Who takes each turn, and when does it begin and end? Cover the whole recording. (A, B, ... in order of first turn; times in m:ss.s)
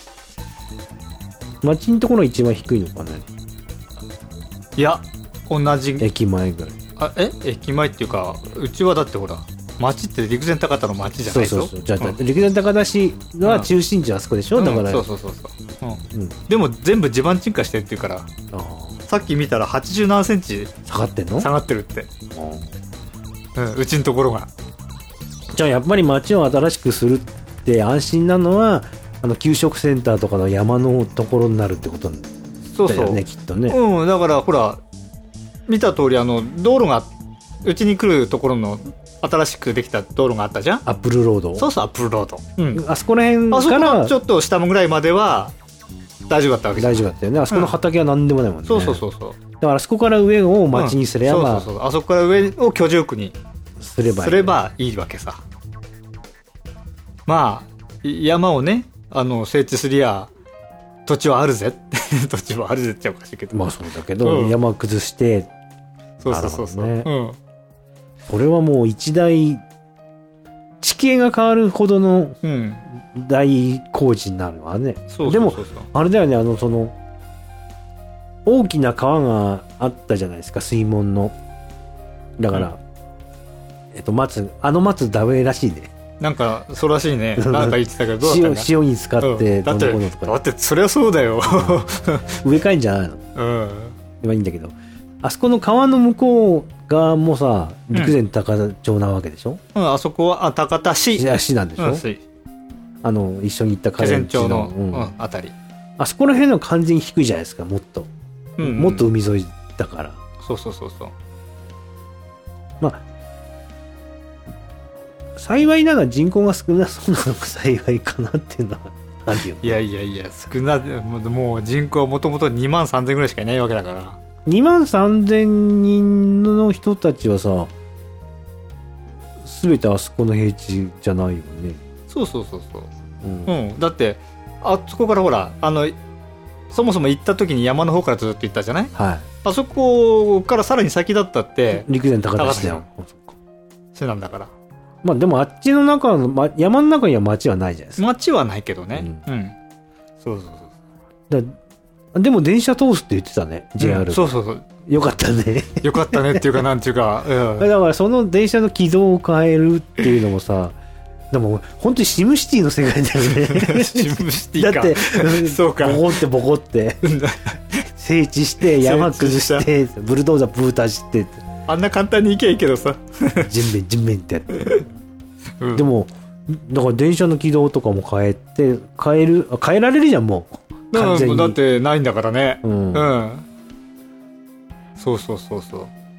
0:01.6-0:03.3 A
0:04.8-0:06.1 B
0:06.0-0:06.8 A
0:07.0-0:12.2 B
0:11.3-0:15.0 A
0:13.4-0:13.7 B
0:14.5-0:18.3 B
0:16.1-0:16.4 A
0:18.5-0:19.0 A
0:19.1-0:20.7 B
0:20.8-0:21.5 A
0:21.4-0:22.1 B
0:22.3-0:22.7 A
0:23.5-0:24.5 B
0:25.5-0:32.3 A
0:32.7-0:34.8 B
0:32.8-0:33.8 A
0:35.7-0:37.1 B
0:37.6-0:40.8 B
0:40.8-0:41.7 A
0:41.6-0:42.8 B
0:42.7-0:44.1 A
0:43.5-0:45.5 B
0:46.3-0:47.8 B
0:46.8-0:49.0 A
0:48.6-0:49.4 B
0:49.6-0:51.7 A
0:50.7-0:53.4 B
0:53.8-0:54.6 A
0:54.1-0:55.4 B
0:57.3-1:00.3 B
1:01.0-1:03.7 B
1:03.5-1:05.5 A
1:04.2-1:04.6 B
1:06.2-1:07.4 B
1:06.3-1:07.1 A
1:08.3-1:09.6 A
1:10.8-1:12.4 A
1:12.4-1:12.8 B
1:12.9-1:16.9 A
1:15.1-1:15.9 B
1:18.4-1:21.3 A
1:22.4-1:22.8 A
1:23.9-1:25.9 A
1:26.2-1:28.7 B
1:27.4-1:30.4 A
1:29.2-1:32.4 B
1:31.4-1:31.8 A
1:32.4-1:33.2 A
1:33.4-1:34.0 B
1:34.2-1:39.6 A
1:39.7-1:42.2 B
1:41.1-1:42.0 A
1:43.0-1:45.1 A
1:44.0-1:45.5 B
1:46.0-1:50.2 A
1:48.6-1:49.1 B
1:50.4-1:51.1 B
1:52.8-1:53.0 A
1:55.4-1:59.8 A
1:59.6-2:04.2 B
2:04.4-2:07.7 A
2:09.4-2:11.8 A
2:12.1-2:12.9 B
2:13.2-2:13.5 A
2:13.4-2:15.9 B
2:16.7-2:18.9 B
2:18.9-2:19.3 A
2:19.4-2:22.8 B
2:21.7-2:23.3 A
2:23.9-2:24.5 B
2:25.0-2:28.0 A
2:28.0-2:29.6 B
2:28.9-2:29.2 A
2:30.2-2:30.7 B
2:31.3-2:31.6 A
2:32.1-2:34.3 A
2:33.8-2:34.6 B
2:34.8-2:36.6 A
2:35.8-2:37.7 B
2:37.6-2:40.8 A
2:41.3-2:47.0 A
2:43.2-2:46.2 B
2:47.0-2:47.9 B
2:48.0-2:51.4 A
2:48.6-2:49.7 B
2:51.7-2:53.5 B
2:53.4-2:54.8 A
2:54.6-2:54.8 B
2:55.6-2:55.8 B
2:55.7-3:01.6 A
3:00.9-3:03.4 B
3:02.6-3:03.1 A
3:05.0-3:05.9 B